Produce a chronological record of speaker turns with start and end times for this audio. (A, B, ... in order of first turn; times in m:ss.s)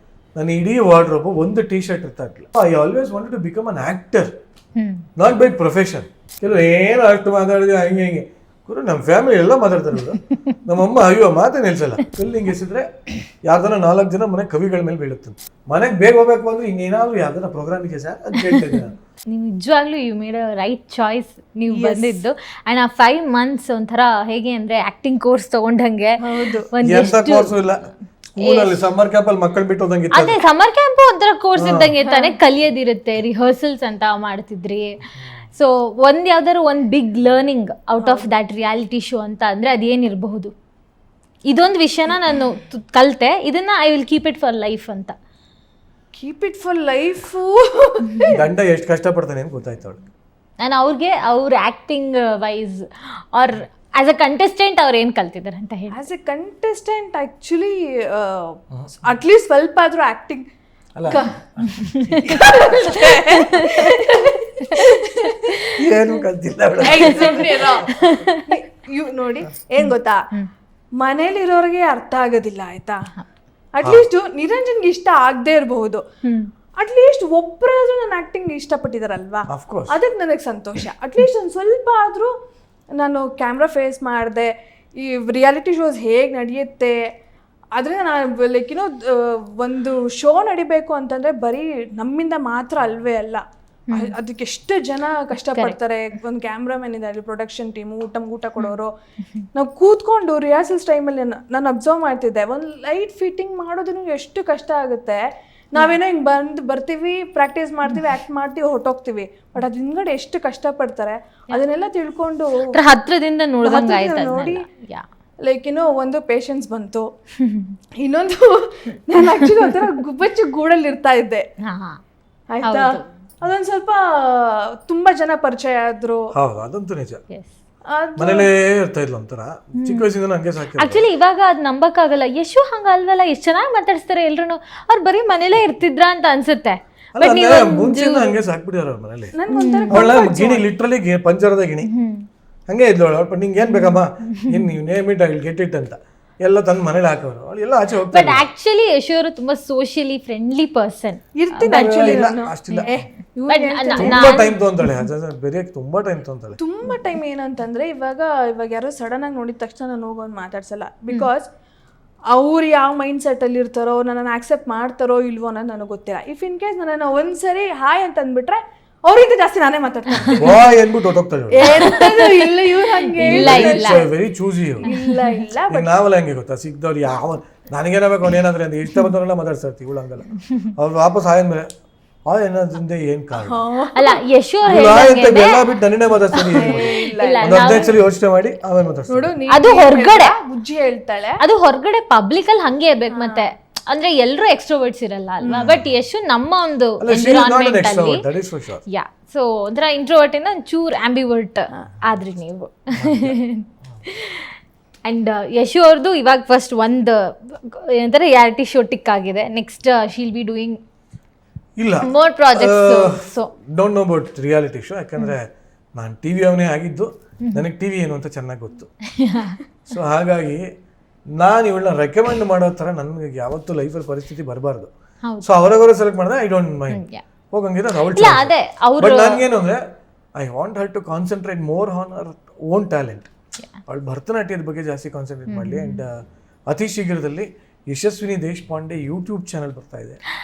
0:00.3-0:04.3 A
0:04.8-0:05.0 B
0:05.2-0:12.9 A
0:13.4-0:18.9 A
0:18.5-0:27.7 B
0:21.7-0:22.2 C
0:26.2-0:26.7 C
0:26.8-0:30.4 A
0:28.4-0:28.8 B
0:30.1-0:40.5 B
0:31.6-0:31.9 A
0:32.0-0:32.4 C
0:38.0-0:38.3 C
0:41.4-0:45.1 B
0:46.1-0:48.4 C
0:48.3-0:50.0 A
0:50.6-0:56.0 B
0:55.9-1:00.5 C
1:01.0-1:03.0 A
1:01.1-1:01.4 C
1:01.7-1:02.3 B
1:02.2-1:05.6 C
1:03.0-1:04.1 B
1:04.6-1:05.9 B
1:05.7-1:07.8 A
1:06.8-1:10.3 C
1:07.1-1:08.5 B
1:11.0-1:13.0 C
1:13.7-1:16.0 C
1:16.2-1:16.5 B
1:16.8-1:22.3 C
1:19.5-1:20.0 A
1:22.9-1:27.1 C
1:27.7-1:38.9 C
1:33.9-1:34.1 B
1:39.5-1:52.8 C
1:52.7-1:55.0 B
1:53.6-1:54.6 C
1:55.4-1:57.1 C
1:57.4-1:57.8 B
1:58.0-2:01.4 C
2:01.6-2:02.0 B
2:02.5-2:06.3 C
2:02.6-2:03.1 B
2:06.3-2:07.2 A
2:07.8-2:08.5 C
2:08.2-2:11.0 A
2:09.8-2:10.1 B
2:10.8-2:18.4 B
2:17.2-2:19.3 A
2:19.3-2:20.6 C
2:19.5-2:20.2 B
2:19.9-2:21.9 A
2:21.8-2:22.3 B
2:22.7-2:28.5 A
2:23.6-2:24.6 B
2:28.1-2:32.9 B
2:31.4-2:34.4 C
2:31.7-2:33.0 A
2:33.5-2:34.9 B
2:33.9-2:36.6 A
2:36.6-2:41.5 C
2:42.3-2:50.7 C
2:50.2-2:52.0 A
2:51.5-2:54.1 C
2:51.6-2:54.1 B
2:53.2-2:54.9 A
2:54.8-2:55.4 B
2:54.8-2:55.9 C
2:55.7-3:01.7 A
3:02.2-3:03.6 A
3:03.3-3:04.2 C
3:03.9-3:05.7 B
3:04.7-3:09.3 A
3:06.3-3:08.0 B
3:06.5-3:07.9 C
3:09.1-3:11.4 C
3:09.5-3:10.3 B
3:11.4-3:18.2 B
3:13.1-3:13.5 C
3:15.4-3:15.8 C
3:15.5-3:15.9 A
3:17.0-3:18.8 A
3:18.9-3:24.5 B
3:23.0-3:23.3 A
3:25.0-3:30.8 B
3:31.8-3:38.9 A
3:32.0-3:33.5 B
3:39.1-3:39.6 B
3:39.9-3:40.7 A
3:41.4-3:44.9 A
3:45.2-3:45.5 B
3:45.4-3:49.8 A
3:46.9-3:47.2 B
3:48.1-3:49.4 B
3:50.4-3:53.3 A
3:53.8-4:00.2 A
3:55.5-3:56.0 B